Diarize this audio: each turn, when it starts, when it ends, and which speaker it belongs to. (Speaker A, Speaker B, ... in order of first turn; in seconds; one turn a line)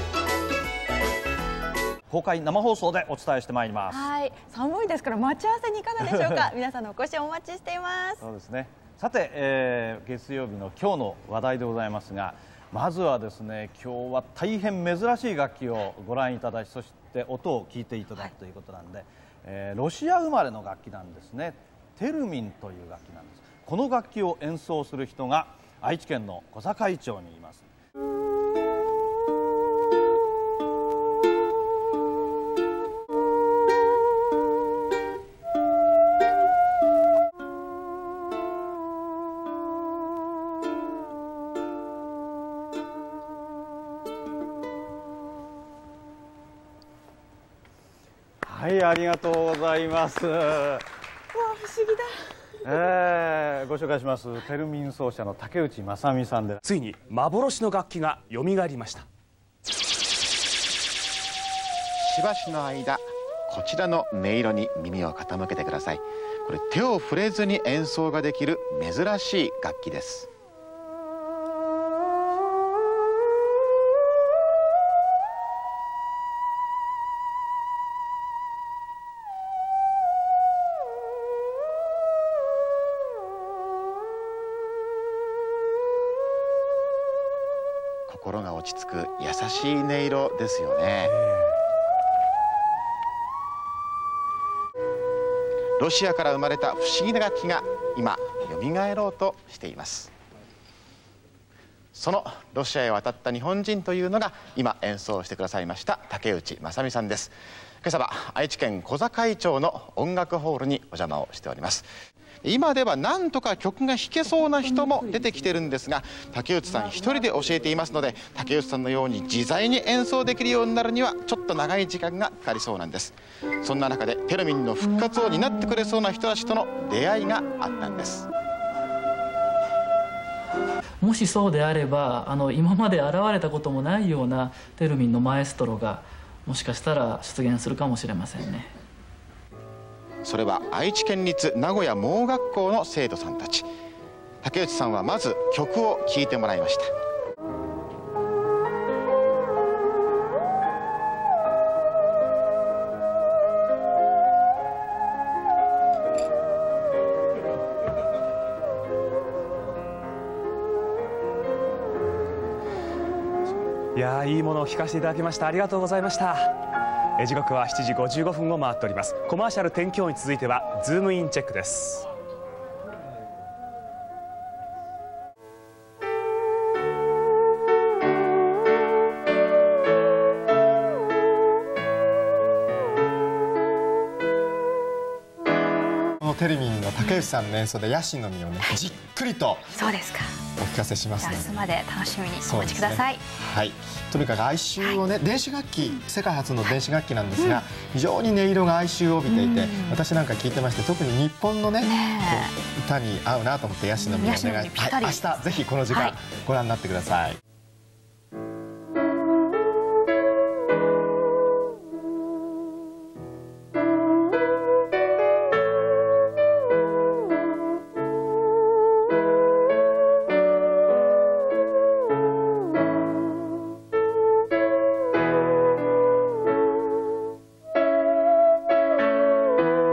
Speaker A: 2.1-4.1
Speaker B: 4.0-4.8
Speaker B: 5.6-7.5
Speaker A: 6.0-6.5
Speaker A: 8.2-27.7
Speaker A: 48.5-50.8
Speaker A: 52.6-56.6
Speaker C: 56.6-59.0
Speaker D: 62.0-70.3
Speaker D: 88.1-91.1
Speaker D: 95.8-100.1
Speaker D: 102.0-111.9
Speaker D: 112.4-128.3
Speaker E: 114.3-115.5
Speaker E: 116.6-117.8
Speaker E: 131.0-138.7
Speaker D: 140.2-143.7
Speaker D: 144.4-146.9
Speaker C: 164.0-166.5
Speaker C: 167.2-172.0
Speaker F: 186.2-189.8
Speaker F: 190.6-191.7
Speaker F: 192.4-207.4